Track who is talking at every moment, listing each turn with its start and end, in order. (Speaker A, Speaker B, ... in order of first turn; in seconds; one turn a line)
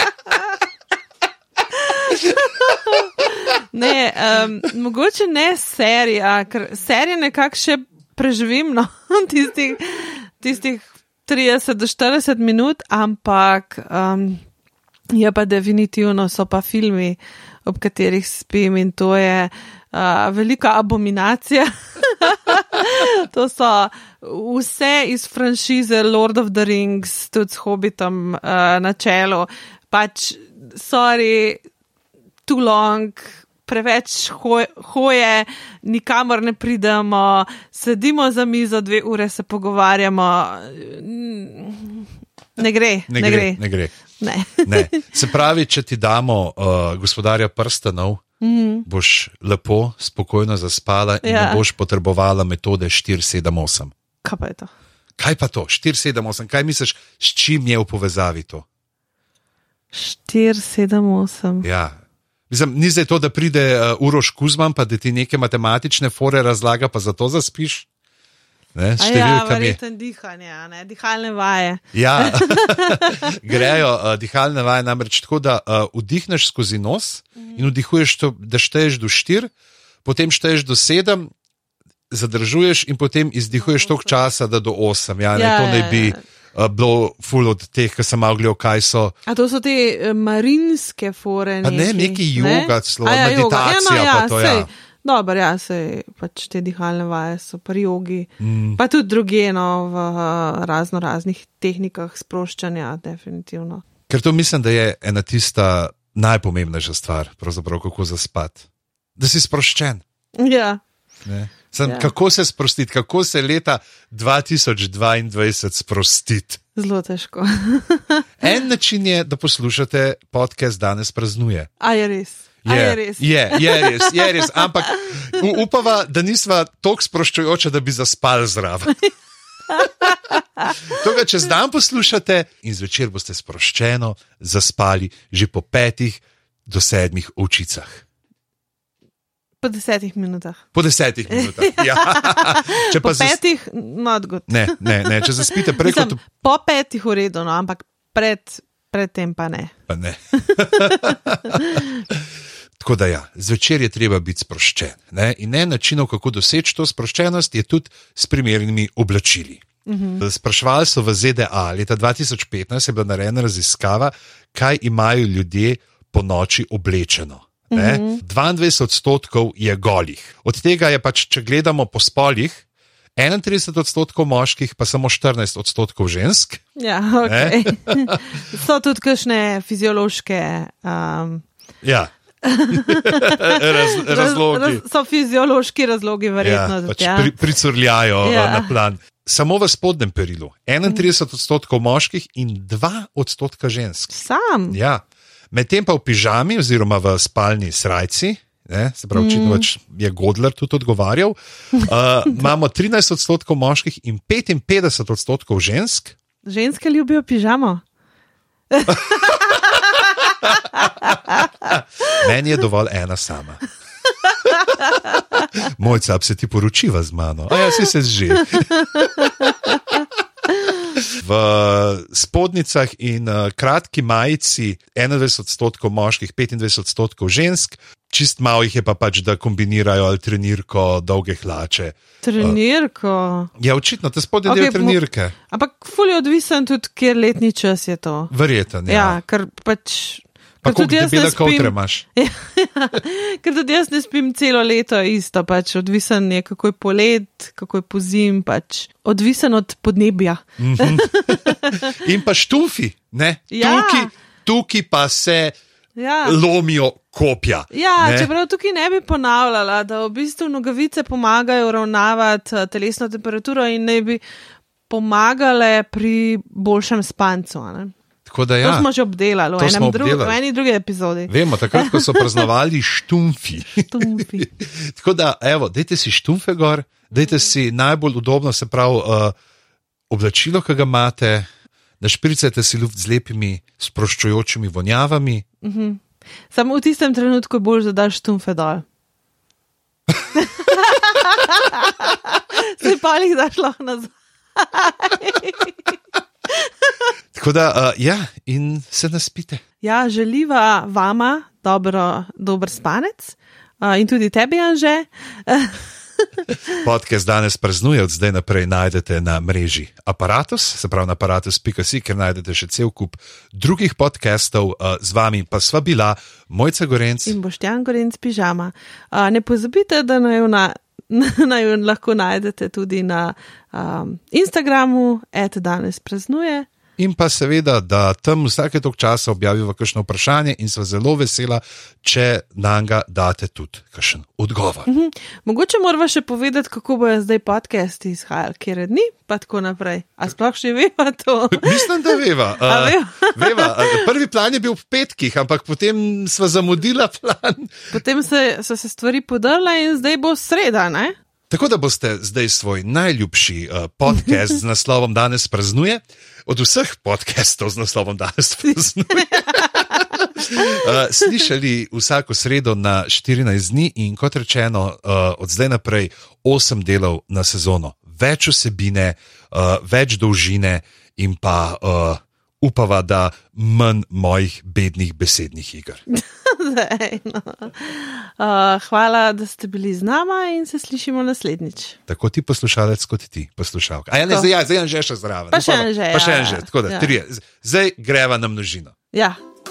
Speaker A: 1.7-14.4
Speaker A: 15.1-31.6
Speaker A: 32.5-43.6
Speaker B: 43.1-44.0
Speaker A: 44.2-45.1
Speaker B: 44.6-48.2
Speaker A: 48.4-48.9
Speaker B: 48.9-53.9
Speaker A: 51.2-51.6
Speaker A: 54.2-54.7
Speaker B: 55.2-58.6
Speaker A: 59.9-61.7
Speaker B: 61.6-62.0
Speaker B: 62.5-67.9
Speaker B: 68.8-69.8
Speaker A: 69.0-73.7
Speaker B: 71.9-79.5
Speaker A: 77.4-77.7
Speaker B: 80.0-81.3
Speaker B: 82.1-89.1
Speaker A: 85.3-86.2
Speaker A: 89.3-103.8
Speaker B: 91.6-94.7
Speaker B: 98.4-98.8
Speaker B: 104.1-108.6
Speaker B: 109.2-110.0
Speaker A: 110.4-110.8
Speaker B: 111.2-116.6
Speaker A: 111.9-112.1
Speaker A: 116.8-118.3
Speaker B: 118.4-121.7
Speaker A: 121.8-125.1
Speaker B: 122.6-128.9
Speaker A: 129.7-130.8
Speaker B: 130.8-138.0
Speaker A: 139.6-140.6
Speaker B: 140.7-143.4
Speaker A: 141.3-149.7
Speaker B: 144.5-146.2
Speaker B: 149.9-152.2
Speaker A: 150.4-152.0
Speaker B: 152.8-159.6
Speaker A: 159.9-160.2
Speaker B: 160.2-172.6
Speaker A: 167.7-168.2
Speaker B: 173.2-176.6
Speaker A: 176.8-181.4
Speaker B: 177.2-178.2
Speaker B: 181.8-182.1
Speaker A: 182.4-187.4
Speaker B: 182.7-184.8
Speaker B: 186.4-194.1
Speaker A: 188.2-188.7
Speaker A: 194.1-194.8
Speaker B: 194.7-206.1
Speaker A: 199.1-199.7
Speaker A: 206.4-207.8
Speaker A: 208.7-212.2
Speaker B: 212.1-213.6
Speaker A: 214.5-215.2
Speaker B: 215.5-219.3
Speaker A: 218.7-219.8
Speaker B: 221.0-232.6
Speaker A: 232.2-233.5
Speaker B: 233.6-235.3
Speaker A: 234.4-238.3
Speaker B: 238.3-239.2
Speaker A: 238.9-252.0
Speaker B: 240.6-242.0
Speaker B: 250.6-255.6
Speaker A: 253.5-254.1
Speaker A: 256.0-256.4
Speaker B: 256.2-258.3
Speaker A: 257.7-264.2
Speaker A: 264.9-267.9
Speaker B: 268.3-268.9
Speaker A: 268.6-272.4
Speaker B: 269.6-270.4
Speaker B: 271.3-279.3
Speaker A: 273.9-274.5
Speaker B: 280.1-281.5
Speaker B: 282.0-285.4
Speaker A: 285.6-288.9
Speaker A: 290.3-295.9
Speaker A: 296.5-297.1
Speaker B: 297.3-299.6
Speaker A: 299.8-306.2
Speaker B: 306.8-317.4
Speaker A: 317.3-326.7
Speaker B: 327.0-334.9
Speaker A: 334.9-344.1
Speaker B: 341.5-347.9
Speaker A: 347.9-351.2
Speaker B: 351.5-376.0
Speaker A: 359.1-360.9
Speaker A: 376.1-382.0
Speaker B: 382.1-388.9
Speaker A: 385.5-387.1
Speaker A: 389.1-389.4